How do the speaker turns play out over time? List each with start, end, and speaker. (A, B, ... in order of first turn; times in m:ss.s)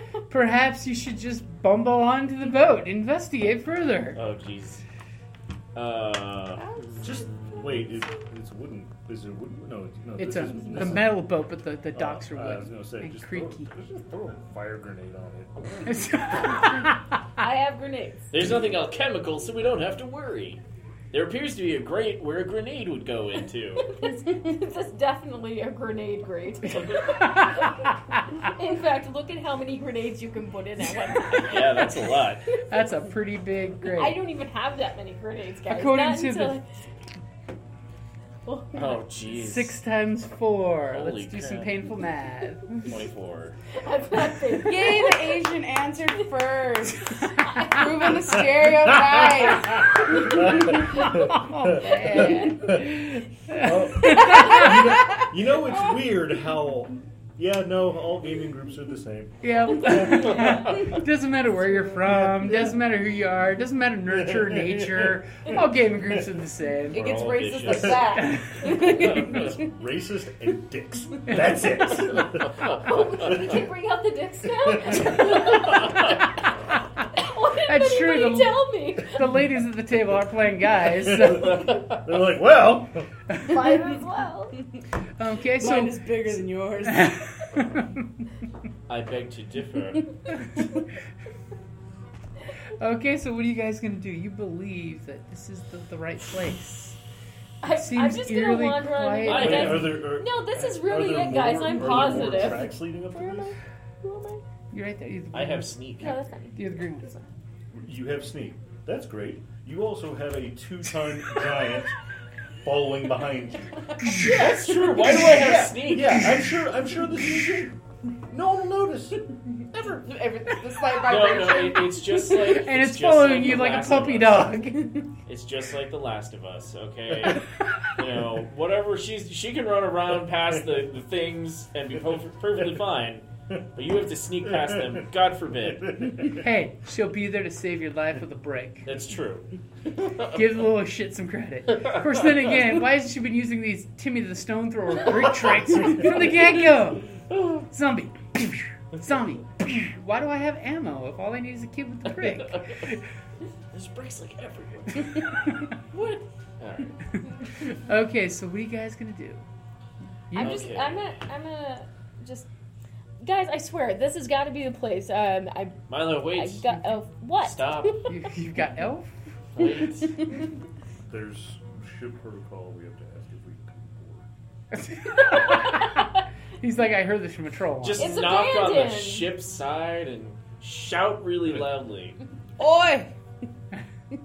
0:00.3-0:04.2 A
0:04.2-0:04.8 B
0:05.8-0:06.6 B
0:06.6-0:07.1 C
0:07.0-0:11.2 D
0:10.2-0:13.7 A
0:12.0-0:16.0 D
0:15.8-0:17.1 A
0:17.4-0:18.3 E
0:18.3-0:23.9 B
0:23.9-0:32.1 E
0:31.4-0:32.4 B
0:32.7-0:34.2 A
0:33.8-0:36.6 E
0:35.7-0:36.6 A
0:38.4-0:39.0 E
0:38.7-0:39.8 B
0:39.3-0:43.0 A
0:40.9-0:41.7 B
0:42.8-0:43.6 B
0:43.7-0:45.4 E
0:44.6-0:50.0 C
0:49.8-1:00.3 D
0:50.7-0:55.1 A
0:59.4-1:07.0 A
1:00.3-1:00.6 B
1:04.2-1:05.6 D
1:06.9-1:09.3 C
1:06.9-1:09.5 B
1:07.1-1:08.1 D
1:08.7-1:13.7 D
1:12.7-1:16.2 E
1:14.6-1:15.6 D
1:17.1-1:19.3 E
1:17.6-1:21.6 A
1:21.0-1:23.1 D
1:23.4-1:24.6 E
1:25.2-1:28.0 A
1:25.6-1:27.3 C
1:28.9-1:30.1 B
1:32.8-1:37.0 A
1:37.6-1:44.4 E
1:37.6-1:40.0 A
1:39.2-1:40.0 B
1:39.3-1:43.6 D
1:44.7-1:47.2 A
1:45.3-1:46.2 B
1:46.0-1:47.2 E
1:47.7-1:52.0 D
1:52.6-1:54.4 D
1:54.2-1:56.4 B
1:55.2-2:00.0 D
1:59.8-2:02.5 C
2:00.9-2:04.5 B
2:02.4-2:05.1 A
2:05.3-2:16.1 B
2:14.6-2:15.0 D
2:15.9-2:16.4 D
2:16.3-2:18.9 A
2:18.8-2:20.4 B
2:20.2-2:33.0 A
2:33.7-2:35.5 B
2:35.9-2:36.2 E
2:36.6-2:37.0 B
2:37.7-2:39.5 A
2:40.3-2:40.7 A
2:40.3-2:42.5 E
2:40.4-2:41.2 B
2:43.2-2:48.0 E
2:45.9-2:46.8 B
2:47.4-2:48.0 B
2:48.1-2:49.3 A
2:49.6-2:50.2 B
2:51.1-2:54.3 D
2:54.8-2:56.0 A
2:55.1-2:56.0 E
2:56.6-2:58.2 A
2:57.8-3:02.2 B
2:58.0-2:59.3 E
3:02.6-3:03.1 C